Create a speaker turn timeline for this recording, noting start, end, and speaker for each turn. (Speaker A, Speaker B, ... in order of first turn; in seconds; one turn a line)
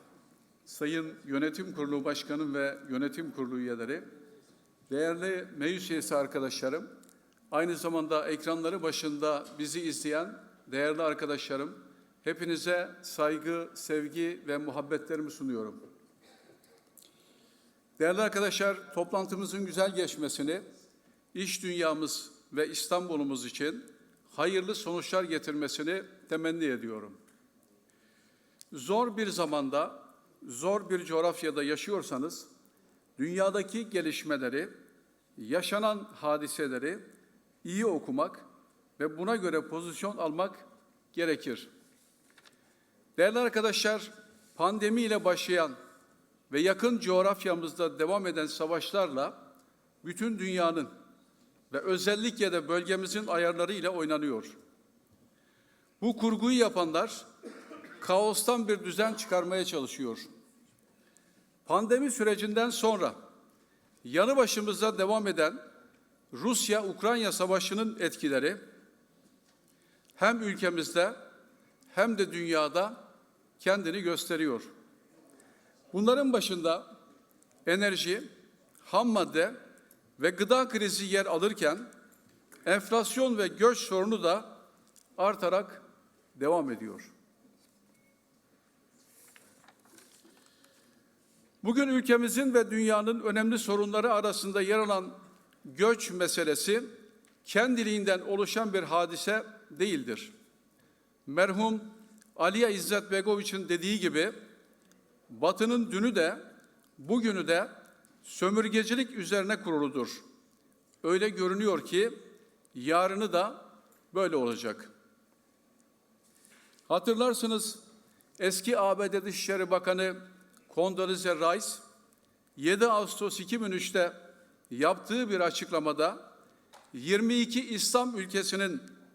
Speaker A: 0.7-4.0
Speaker A: 4.9-6.8
Speaker A: 7.5-15.8
Speaker A: 18.0-20.6
Speaker A: 21.3-27.2
Speaker A: 28.7-32.5
Speaker A: 33.2-34.7
Speaker A: 35.4-37.0
Speaker A: 37.6-38.4
Speaker A: 39.0-41.7
Speaker A: 43.1-45.7
Speaker A: 46.5-49.4
Speaker A: 50.0-50.9
Speaker A: 51.7-54.5
Speaker A: 56.0-57.2
Speaker A: 58.0-60.2
Speaker A: 61.6-63.1
Speaker A: 64.0-65.6
Speaker A: 66.3-68.6
Speaker A: 70.2-71.2
Speaker A: 71.9-73.0
Speaker A: 73.6-74.7
Speaker A: 75.9-76.8
Speaker A: 77.7-78.2
Speaker A: 78.8-79.5
Speaker A: 80.2-81.8
Speaker A: 82.7-84.5
Speaker A: 85.2-85.8
Speaker A: 86.3-87.1
Speaker A: 91.6-96.9
Speaker A: 97.4-100.3
Speaker A: 101.2-104.3
Speaker A: 105.3-106.4
Speaker A: 107.0-107.7
Speaker A: 108.2-110.2
Speaker A: 111.0-112.1
Speaker A: 112.7-113.6
Speaker A: 114.1-114.9
Speaker A: 116.9-117.8
Speaker A: 118.4-120.2
Speaker A: 120.7-121.8
Speaker A: 122.5-124.2
Speaker A: 124.7-126.2
Speaker A: 126.9-128.8